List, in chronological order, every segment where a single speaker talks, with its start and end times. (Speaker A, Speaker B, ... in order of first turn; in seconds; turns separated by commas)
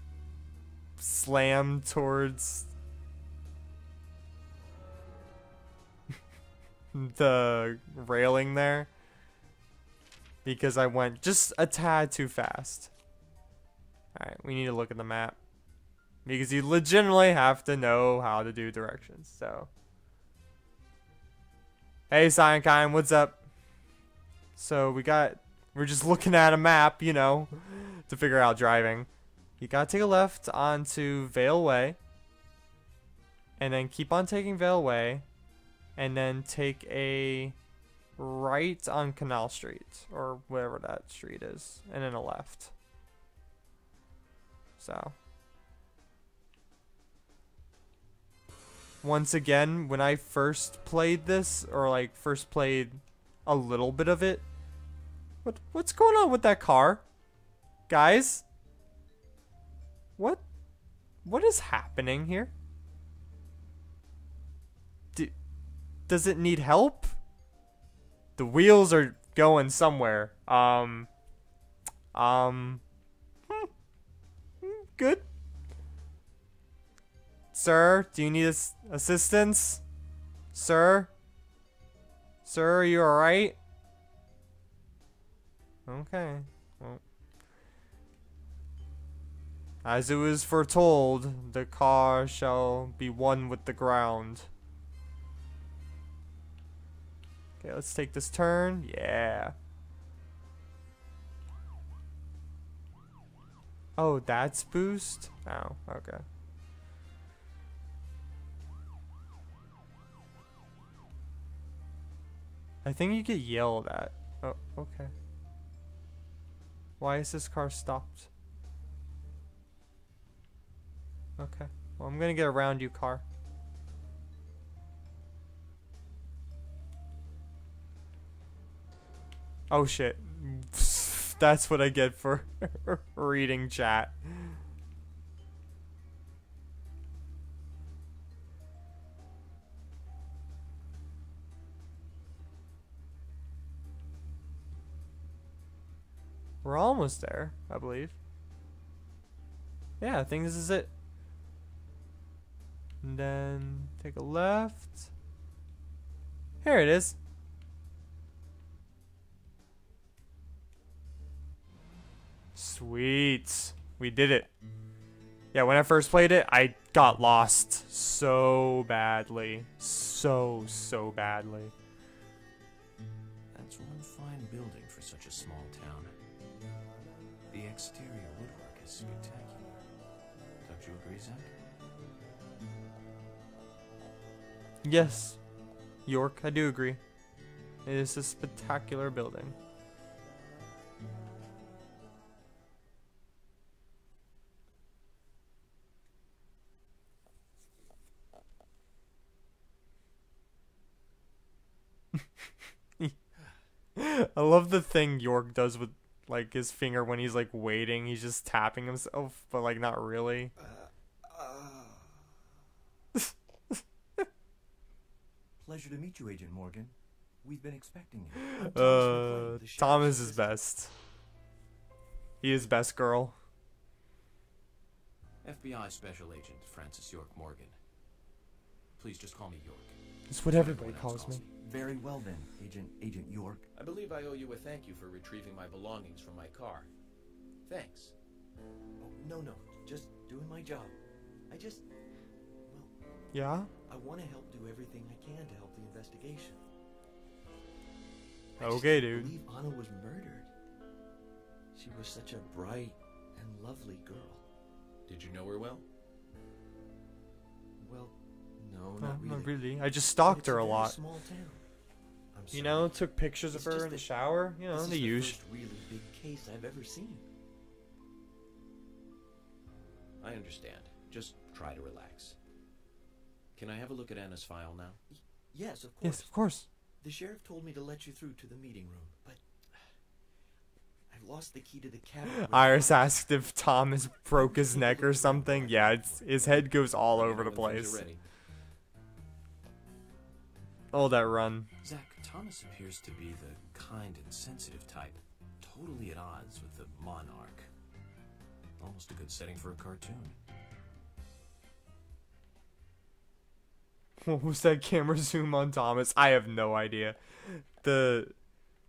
Speaker A: 1.0-2.7, Speaker A: 6.9-8.9, Speaker A: 10.4-12.9, Speaker A: 14.2-15.4, Speaker A: 16.2-19.7, Speaker A: 22.1-23.4, Speaker A: 24.6-29.1, Speaker A: 29.6-32.0, Speaker A: 33.6-35.2, Speaker A: 36.0-37.6, Speaker A: 38.2-42.7, Speaker A: 44.8-45.1, Speaker A: 49.0-54.5, Speaker A: 55.5-57.0, Speaker A: 57.9-58.4, Speaker A: 60.2-60.4, Speaker A: 61.2-62.5, Speaker A: 66.1-67.2, Speaker A: 68.4-71.1, Speaker A: 72.1-72.8, Speaker A: 74.6-75.2, Speaker A: 77.5-79.8, Speaker A: 80.5-81.1, Speaker A: 82.5-83.6, Speaker A: 85.9-87.0, Speaker A: 89.8-94.5, Speaker A: 97.6-99.5, Speaker A: 104.0-106.2, Speaker A: 112.8-115.1, Speaker A: 117.0-118.3, Speaker A: 121.4-123.2, Speaker A: 129.7-134.6, Speaker A: 146.6-148.2, Speaker A: 150.0-150.9, Speaker A: 153.0-155.1, Speaker A: 156.6-157.2, Speaker A: 162.6-164.5, Speaker A: 165.5-171.7, Speaker B: 173.5-176.1, Speaker B: 177.5-179.7, Speaker B: 180.6-181.5, Speaker A: 184.8-185.4, Speaker A: 186.1-187.0, Speaker A: 187.8-189.6, Speaker A: 204.0-210.5, Speaker C: 210.6-212.1, Speaker C: 215.6-220.6, Speaker A: 218.4-220.9, Speaker A: 222.4-223.3, Speaker B: 225.4-227.8, Speaker B: 229.0-231.5, Speaker A: 230.3-231.4, Speaker C: 231.6-233.7, Speaker D: 233.8-236.9, Speaker D: 237.7-238.1, Speaker C: 239.0-240.9, Speaker C: 241.5-241.8, Speaker C: 242.7-242.9, Speaker A: 243.3-243.7, Speaker C: 243.9-246.6, Speaker C: 248.6-250.5, Speaker A: 248.6-249.4, Speaker C: 251.7-254.5, Speaker D: 255.1-255.8, Speaker C: 257.8-261.6, Speaker A: 259.0-261.0, Speaker C: 262.3-267.3, Speaker A: 262.5-265.4, Speaker D: 270.2-272.4, Speaker B: 273.6-275.0, Speaker C: 275.1-276.3, Speaker A: 276.0-276.7, Speaker C: 277.0-279.9, Speaker C: 281.1-283.4, Speaker A: 282.3-288.1, Speaker C: 284.1-286.7, Speaker D: 287.1-288.2, Speaker A: 290.9-291.7, Speaker B: 291.8-297.7, Speaker B: 298.8-300.4, Speaker A: 304.2-308.4